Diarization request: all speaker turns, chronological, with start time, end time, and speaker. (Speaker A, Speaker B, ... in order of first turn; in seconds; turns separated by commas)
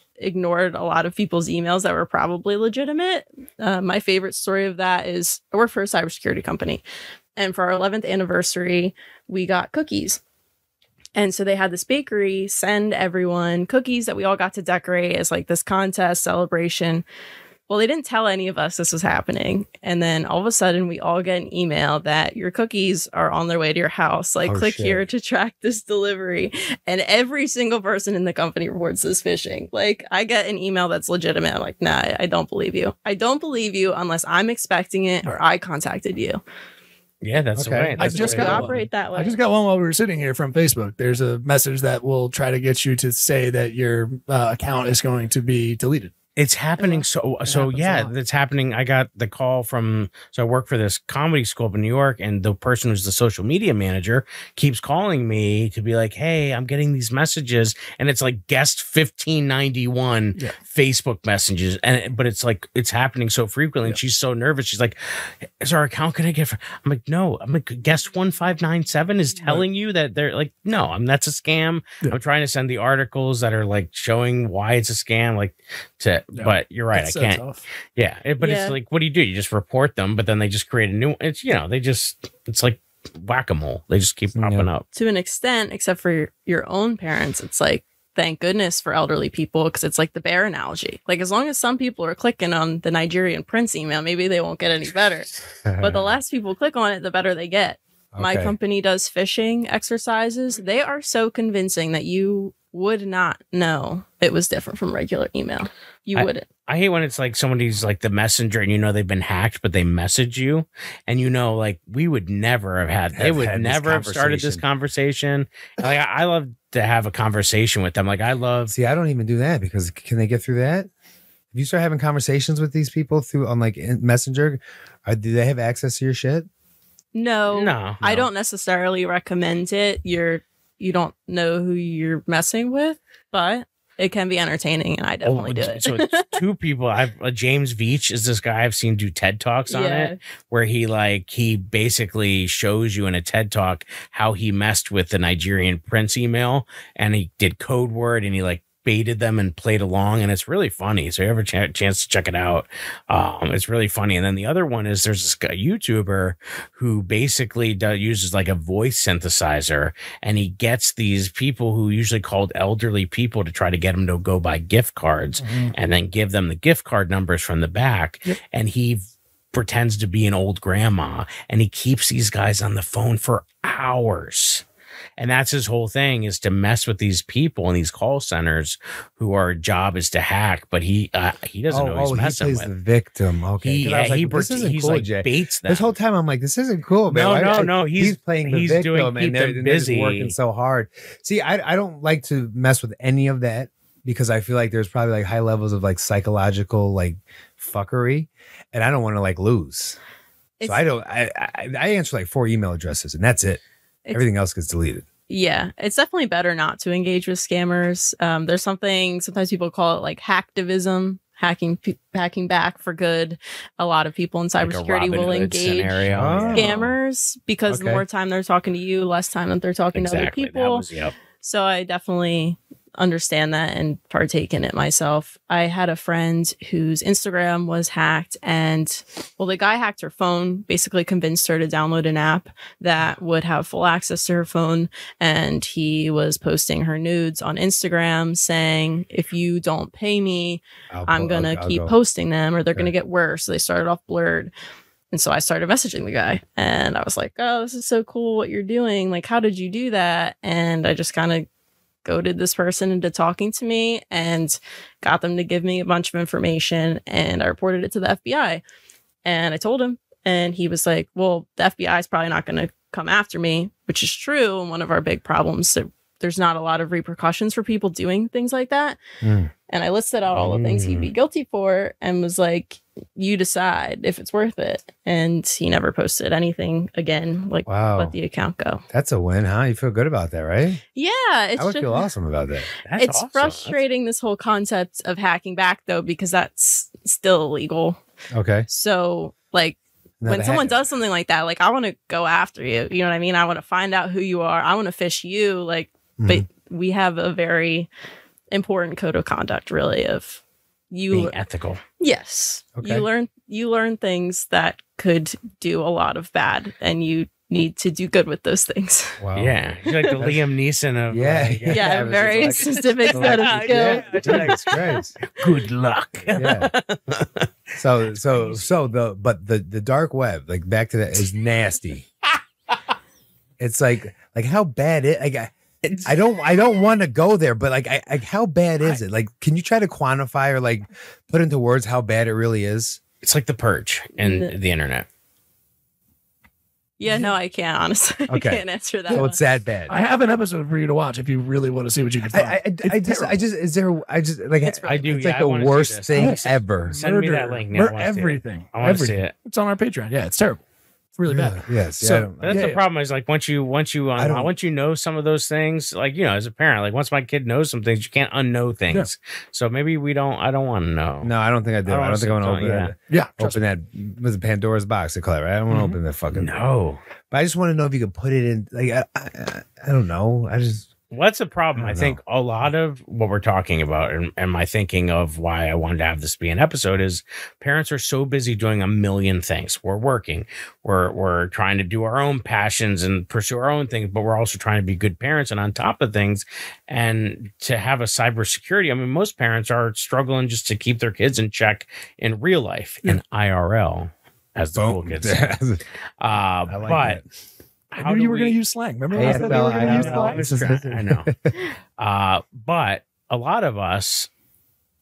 Speaker A: 0.2-6.8, Speaker A: 7.4-10.2, Speaker A: 11.2-17.1, Speaker A: 17.7-36.4, Speaker B: 24.4-25.1, Speaker C: 37.2-38.6, Speaker B: 37.6-38.6, Speaker D: 38.0-46.1, Speaker A: 38.0-39.4, Speaker C: 46.4-65.0, Speaker C: 65.6-77.4, Speaker D: 69.4-69.7, Speaker D: 76.4-77.6, Speaker C: 78.0-84.9, Speaker A: 78.4-78.8, Speaker B: 84.4-84.7, Speaker A: 84.9-106.5, Speaker B: 95.7-96.1, Speaker B: 98.1-98.5, Speaker C: 106.2-118.7, Speaker B: 113.1-114.6, Speaker B: 118.7-120.9, Speaker B: 121.5-126.5, Speaker A: 127.2-136.3, Speaker C: 127.5-128.0, Speaker B: 128.0-128.3, Speaker C: 135.2-169.0, Speaker A: 139.7-140.2, Speaker D: 165.4-165.7, Speaker C: 169.5-174.6, Speaker C: 175.2-182.7, Speaker B: 181.7-200.0, Speaker C: 183.6-185.9, Speaker C: 187.1-190.3, Speaker B: 200.6-203.6, Speaker B: 204.1-205.1, Speaker A: 205.3-220.8, Speaker C: 214.6-216.9, Speaker B: 216.1-216.7, Speaker B: 217.7-218.0, Speaker C: 219.9-221.1, Speaker A: 221.4-244.5, Speaker B: 240.9-241.9, Speaker A: 245.1-251.5, Speaker A: 252.1-258.6, Speaker A: 259.2-269.0, Speaker B: 269.2-269.5, Speaker A: 269.7-278.8, Speaker C: 270.3-271.1, Speaker B: 277.7-278.1, Speaker B: 278.9-280.8, Speaker A: 281.0-282.0, Speaker B: 281.6-282.7, Speaker C: 282.9-283.8, Speaker A: 283.0-288.0, Speaker B: 288.3-288.7, Speaker A: 288.7-297.9, Speaker B: 290.2-290.8, Speaker B: 296.2-296.4, Speaker A: 298.5-301.3, Speaker C: 301.1-301.8, Speaker A: 302.0-309.2, Speaker B: 302.8-303.1, Speaker B: 309.2-309.6, Speaker C: 309.4-317.5, Speaker B: 311.1-315.2, Speaker A: 311.7-314.5, Speaker B: 316.3-316.7, Speaker B: 317.8-322.1, Speaker C: 318.2-318.6, Speaker B: 323.6-333.0, Speaker C: 325.8-326.1, Speaker C: 333.2-335.1, Speaker A: 334.2-334.5, Speaker A: 337.0-339.4, Speaker B: 338.3-339.9, Speaker D: 339.9-343.3, Speaker B: 342.3-346.9, Speaker A: 344.6-345.0, Speaker C: 344.9-349.3, Speaker D: 346.9-350.6, Speaker D: 351.2-352.8, Speaker B: 351.3-352.6, Speaker C: 352.4-361.3, Speaker B: 354.2-354.5, Speaker B: 361.2-366.6, Speaker C: 361.9-362.9, Speaker D: 363.1-363.6, Speaker D: 365.7-366.0, Speaker C: 366.3-367.0, Speaker B: 367.3-370.9, Speaker C: 371.1-395.6, Speaker B: 371.8-372.2, Speaker B: 394.8-395.8, Speaker C: 396.2-397.2, Speaker B: 396.7-397.2, Speaker C: 397.9-398.6, Speaker D: 398.0-400.5, Speaker B: 399.1-401.6, Speaker C: 399.1-401.3, Speaker C: 402.0-404.3